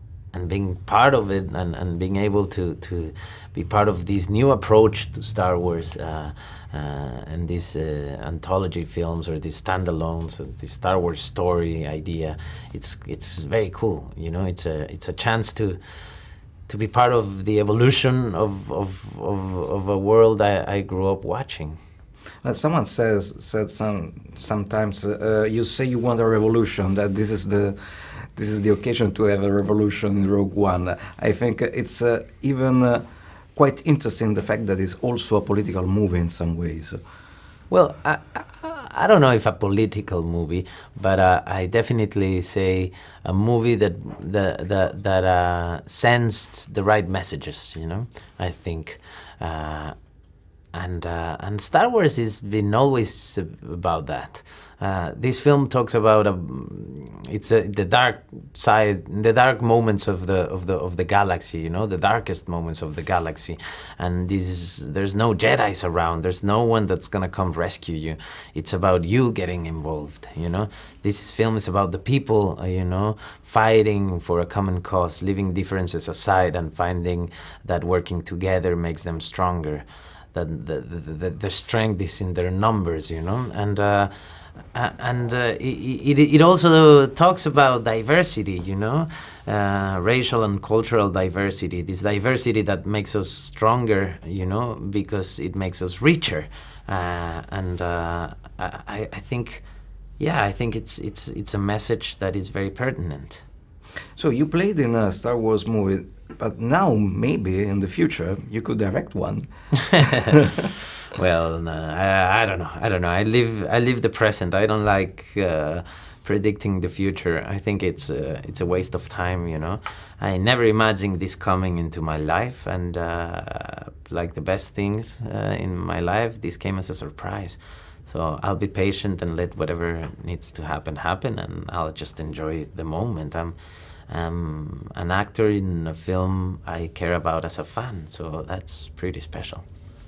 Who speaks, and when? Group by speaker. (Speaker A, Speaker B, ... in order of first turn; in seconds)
Speaker A: 0.3-15.8, 16.7-21.8, 37.7-49.9, 50.7-99.6, 100.2-103.4, 109.9-110.2, 111.1-133.6, 134.1-139.6
Speaker B: 22.4-37.0, 104.2-109.5, 110.1-110.3